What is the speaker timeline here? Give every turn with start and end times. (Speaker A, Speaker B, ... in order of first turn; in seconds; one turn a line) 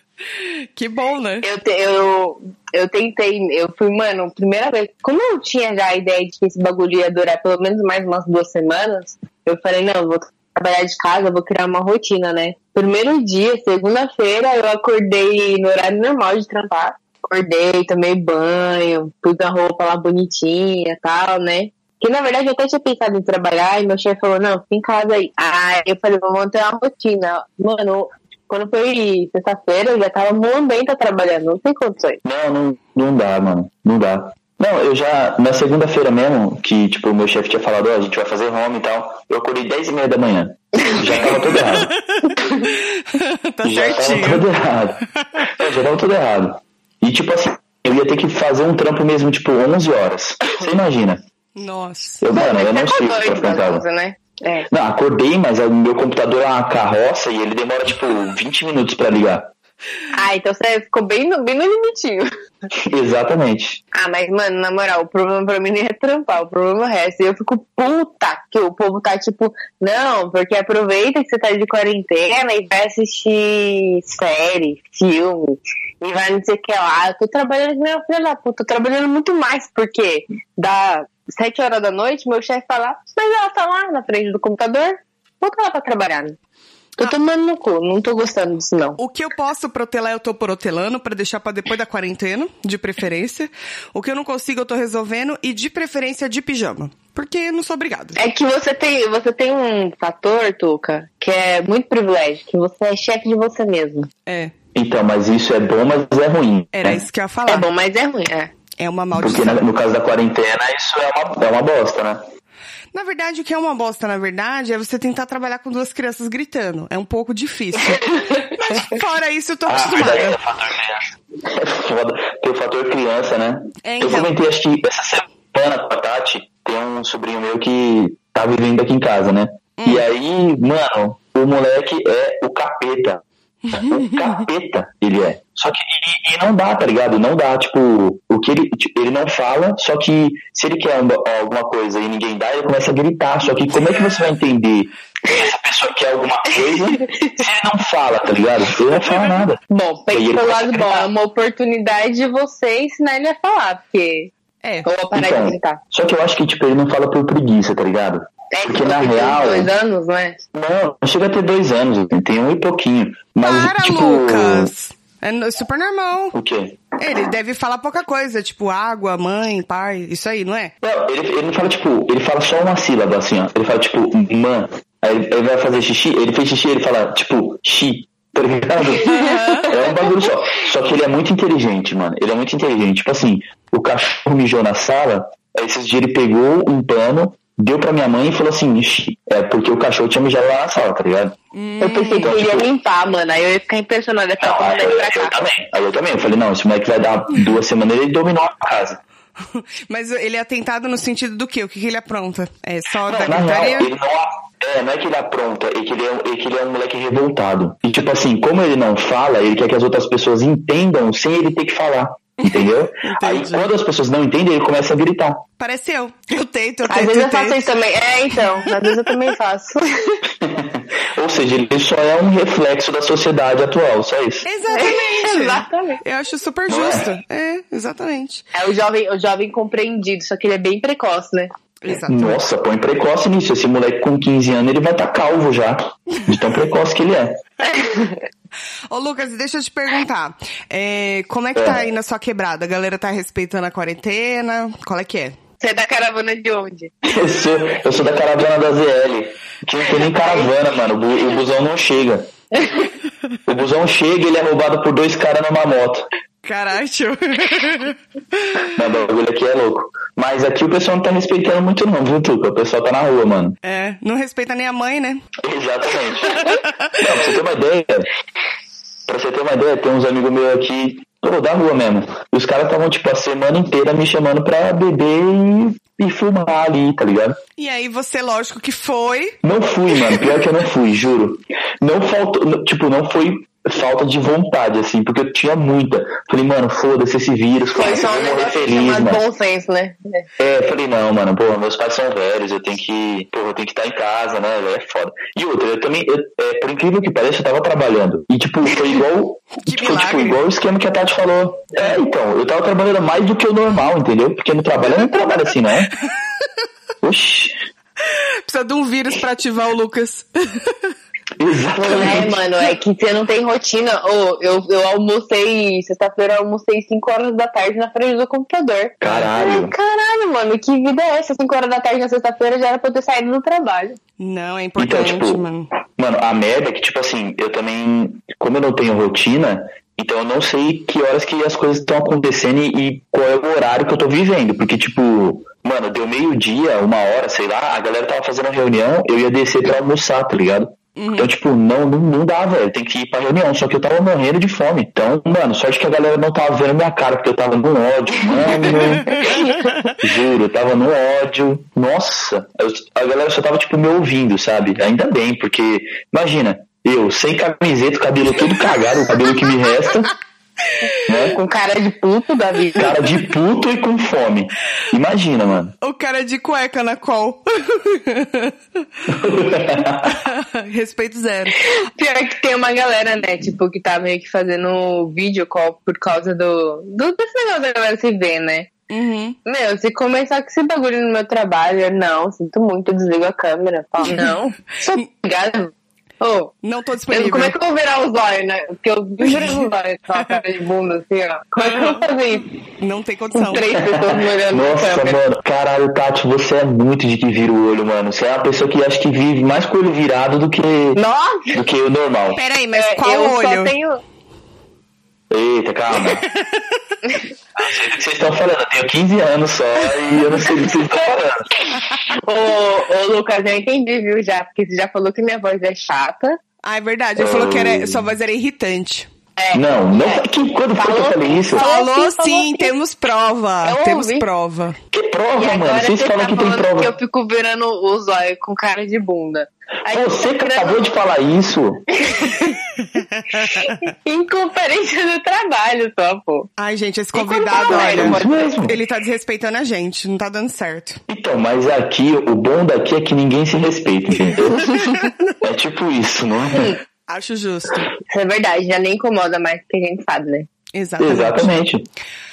Speaker A: 0.3-1.5
Speaker B: 1.4-32.2
Speaker C: 32.2-41.9
Speaker B: 40.8-41.1
Speaker A: 41.3-44.5
Speaker C: 43.6-51.2
Speaker A: 45.2-45.5
Speaker A: 51.5-52.2
Speaker C: 52.2-53.8
Speaker B: 52.3-54.7
Speaker C: 54.7-59.5
Speaker B: 60.1-62.3
Speaker C: 62.7-63.8
Speaker B: 63.9-86.4
Speaker B: 87.0-89.0
Speaker A: 89.0-98.2
Speaker B: 98.2-104.1
Speaker A: 104.2-104.5
Speaker C: 104.7-107.0
Speaker A: 106.7-107.7
Speaker B: 107.5-108.5
Speaker A: 108.8-109.6
Speaker C: 109.2-112.2
Speaker A: 112.9-120.4
Speaker C: 119.7-149.6
Speaker A: 123.8-124.3
Speaker A: 129.8-130.1
Speaker A: 133.6-134.4
Speaker B: 146.8-147.4
Speaker B: 149.7-154.3
Speaker C: 150.1-151.1
Speaker A: 154.6-154.9
Speaker B: 154.8-155.8
Speaker C: 155.1-159.7
Speaker B: 158.5-160.4
Speaker C: 160.5-164.7
Speaker A: 163.4-166.4
Speaker C: 166.3-166.8
Speaker A: 167.0-170.7
Speaker C: 170.8-191.3
Speaker A: 179.0-179.7
Speaker B: 179.6-179.8
Speaker A: 191.5-192.3
Speaker B: 191.8-195.4
Speaker C: 192.2-192.7
Speaker C: 194.4-199.0
Speaker A: 199.4-203.9
Speaker C: 203.1-215.4
Speaker A: 212.4-213.7
Speaker A: 215.6-217.7
Speaker B: 216.9-220.2
Speaker A: 218.4-219.1
Speaker C: 220.3-224.5
Speaker A: 224.4-228.5
Speaker B: 224.7-226.0
Speaker C: 226.7-227.1
Speaker B: 228.5-231.5
Speaker A: 231.8-232.4
Speaker C: 232.1-237.4
Speaker B: 237.6-238.2
Speaker A: 238.9-245.4
Speaker C: 241.5-241.8
Speaker B: 245.6-246.9
Speaker C: 247.0-252.3
Speaker C: 253.5-256.1
Speaker A: 256.4-258.8
Speaker C: 258.8-263.6
Speaker A: 263.6-265.2
Speaker C: 265.4-268.1
Speaker A: 266.2-267.0
Speaker C: 269.1-277.4
Speaker A: 277.6-279.4
Speaker C: 279.4-289.2
Speaker B: 287.7-290.3
Speaker C: 290.4-305.9
Speaker A: 299.6-300.4
Speaker C: 307.0-307.6
Speaker A: 308.0-310.9
Speaker C: 311.4-312.4
Speaker B: 311.8-324.0
Speaker C: 319.0-319.7
Speaker A: 324.2-325.7
Speaker C: 324.8-325.4
Speaker C: 326.0-349.4
Speaker A: 340.9-341.3
Speaker A: 348.7-349.9
Speaker B: 349.1-349.5
Speaker C: 349.9-360.1
Speaker A: 360.6-360.9
Speaker C: 361.1-361.4
Speaker B: 361.2-362.9
Speaker C: 362.8-365.7
Speaker A: 365.8-368.6
Speaker C: 369.1-370.2
Speaker A: 370.0-371.6
Speaker B: 371.6-378.7
Speaker A: 378.9-379.4
Speaker B: 379.4-386.5
Speaker A: 384.1-385.0
Speaker A: 386.6-387.6
Speaker B: 387.1-392.5
Speaker A: 389.2-389.6
Speaker A: 391.6-392.1
Speaker A: 392.6-393.7
Speaker B: 393.3-395.2
Speaker C: 393.7-401.0
Speaker B: 400.9-401.6
Speaker C: 401.5-402.4
Speaker A: 402.3-403.7
Speaker B: 402.7-404.0
Speaker C: 405.3-406.3
Speaker A: 406.1-407.0
Speaker C: 407.6-411.5
Speaker B: 412.1-416.4
Speaker A: 416.6-419.1
Speaker C: 417.2-418.1
Speaker B: 419.4-420.2
Speaker C: 419.5-421.6
Speaker B: 420.8-422.7
Speaker A: 421.5-424.8
Speaker B: 423.6-424.2
Speaker C: 424.9-426.9
Speaker B: 425.4-430.9
Speaker C: 429.9-431.9
Speaker B: 431.9-432.6
Speaker A: 432.2-433.9
Speaker B: 433.5-436.5
Speaker A: 436.6-441.0
Speaker B: 437.1-438.6
Speaker C: 437.7-438.8
Speaker C: 441.1-444.8
Speaker A: 444.5-445.1
Speaker C: 445.4-446.8
Speaker A: 447.1-447.9
Speaker B: 448.1-450.5
Speaker A: 450.7-451.5
Speaker C: 451.0-451.9